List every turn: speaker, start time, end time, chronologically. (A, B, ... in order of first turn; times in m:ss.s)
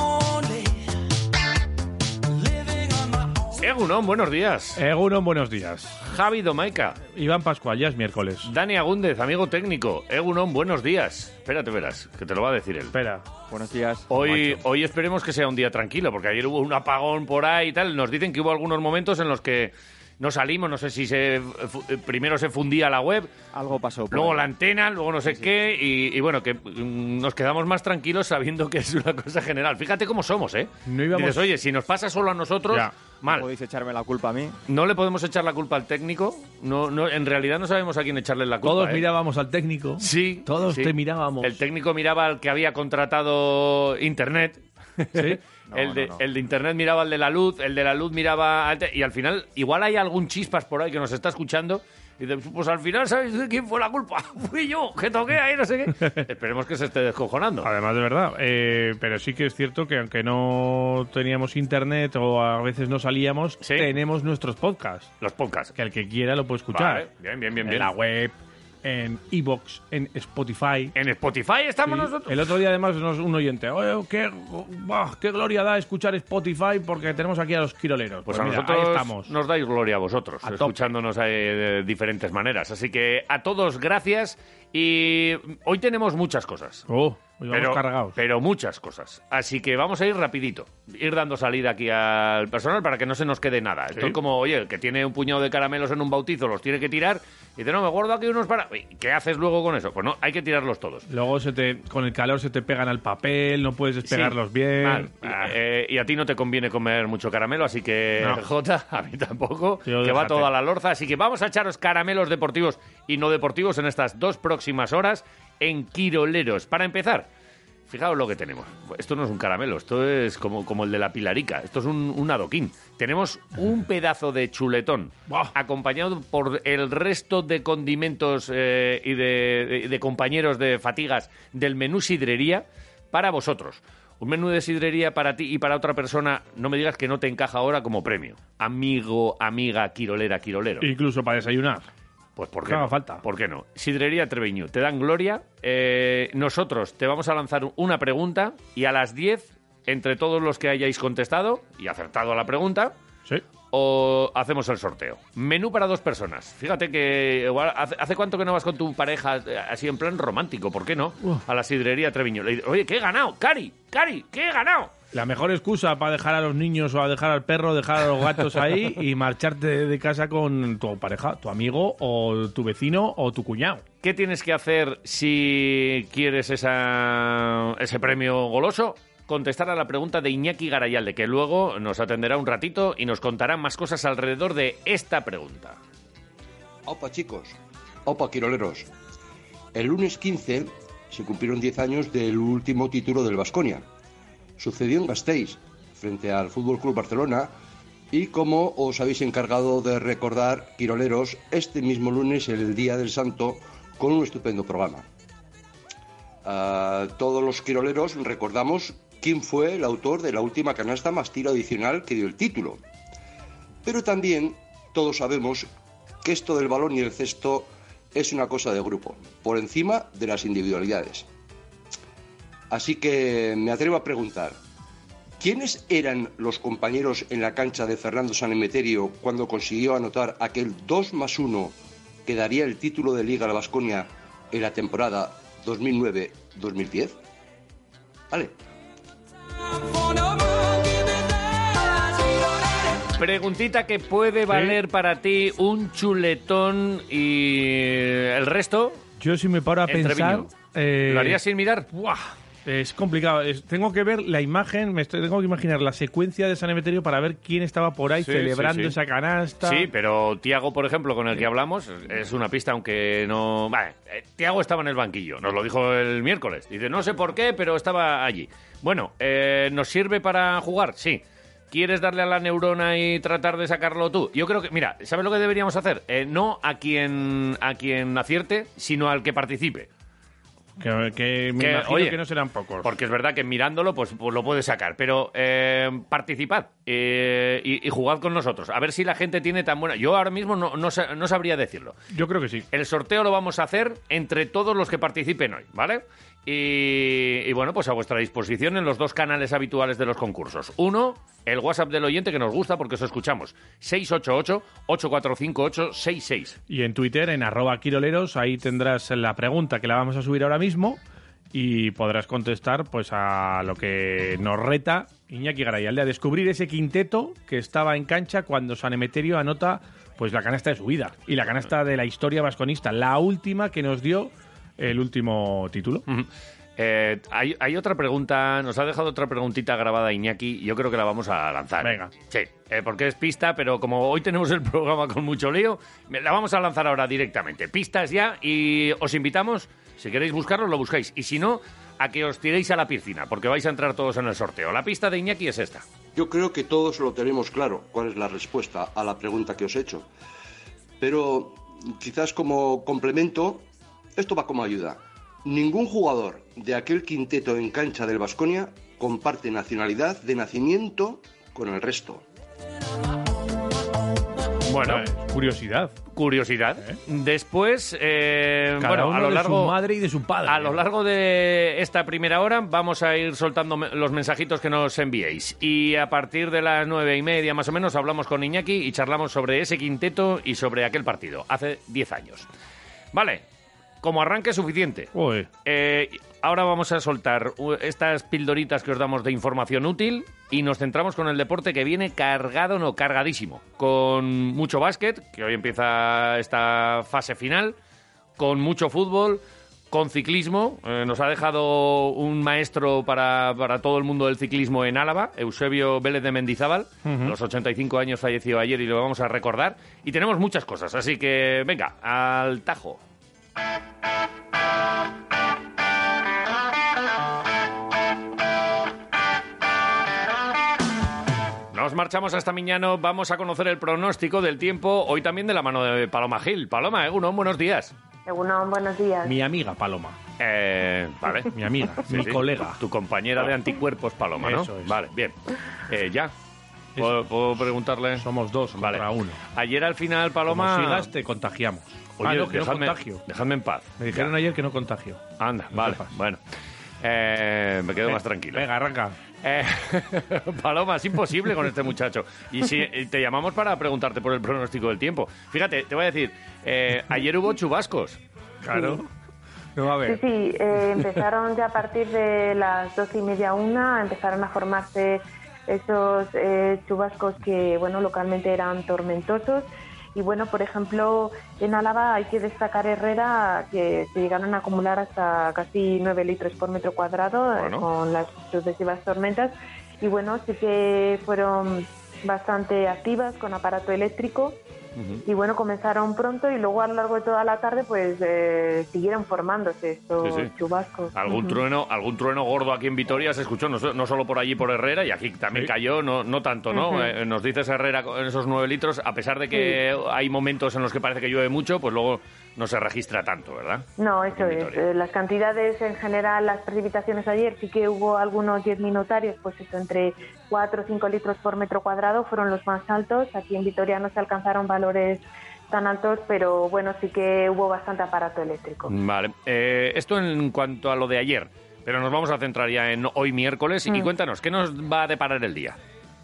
0:03.6-0:04.8 A
0:04.8-0:06.0 B
0:06.0-0:07.0 A
0:07.1-0:08.5 B
0:08.4-0:12.9 A
0:12.9-0:13.3 B
0:13.5-0:14.1 C
0:14.1-0:23.3 A
0:23.5-0:24.4 C
0:24.1-0:33.5 A
0:30.9-0:31.5 B
0:33.3-0:34.6 C
0:34.7-0:39.0 A
0:38.6-0:41.6 B
0:40.0-0:57.7 A
0:57.6-1:05.1 B
1:03.6-1:03.9 A
1:05.2-1:05.7 A
1:05.8-1:07.0 B
1:06.7-1:07.9 A
1:07.6-1:10.9 B
1:11.0-1:12.4 A
1:11.9-1:19.3 B
1:18.3-1:26.9 A
1:20.4-1:20.7 B
1:26.9-1:28.2 B
1:27.5-1:41.0 A
1:41.1-1:45.5 B
1:44.1-1:57.3 A
1:49.9-1:50.5 B
1:57.9-2:20.8 A
2:05.3-2:05.5 B
2:20.8-2:21.9 B
2:22.4-2:32.9 A
2:22.7-2:23.2 B
2:33.7-2:44.9 A
2:45.1-2:53.8 B
2:54.0-3:05.8 A
3:06.9-3:08.9 D
3:09.7-3:13.8 D
3:14.6-3:17.5 D
3:18.1-3:25.0 D
3:26.4-3:32.8 D
3:33.8-3:35.7 D
3:36.2-3:41.3 D
3:42.7-3:44.6 D
3:45.4-3:51.8 D
3:52.3-3:57.2 D
4:03.2-4:09.0 A
4:04.5-4:04.8 B
4:09.2-4:11.4 B
4:09.9-4:10.5 A
4:11.1-4:11.9 A
4:11.9-4:19.9 B
4:18.2-4:19.0 A
4:19.6-4:39.9 A
4:40.8-4:42.9 B
4:41.6-4:42.2 A
4:42.8-4:52.0 A
4:52.1-4:52.6 B
4:52.7-5:06.6 A
5:06.7-5:11.0 B
5:11.5-5:26.0 B
5:26.1-5:45.8 A
5:31.8-5:32.1 B
5:46.2-5:50.0 D
5:51.0-5:53.6 D
5:54.2-6:02.2 D
6:04.7-6:05.1 A
6:04.8-6:06.0 B
6:06.1-6:09.8 A
6:08.8-6:10.8 B
6:10.5-6:22.5 A
6:23.1-6:23.4 A
6:24.0-6:25.1 A
6:25.1-6:25.5 B
6:25.6-6:37.8 A
6:38.4-6:53.0 A
6:47.0-6:47.3 B
7:01.7-7:07.9 A
7:08.3-7:09.4 E
7:09.2-7:10.2 B
7:10.4-7:15.4 A
7:11.5-7:12.8 B
7:14.4-7:15.0 B
7:15.9-7:16.3 A
7:17.0-7:18.2 A
7:18.2-7:19.4 B
7:18.8-7:21.1 A
7:20.5-7:23.2 B
7:22.2-7:24.3 A
7:24.0-7:26.1 B
7:25.4-7:26.4 A
7:27.0-7:28.7 A
7:28.1-7:29.2 B
7:29.4-7:38.2 A
7:38.6-7:39.1 B
7:38.7-7:39.0 E
7:39.8-7:40.2 B
7:40.1-8:04.6 E
7:57.5-7:57.9 A
8:05.2-8:11.6 E
8:10.2-8:10.5 A
8:11.1-8:24.8 A
8:16.7-8:17.1 E
8:19.5-8:19.8 E
8:24.0-8:38.9 E
8:38.9-8:45.8 A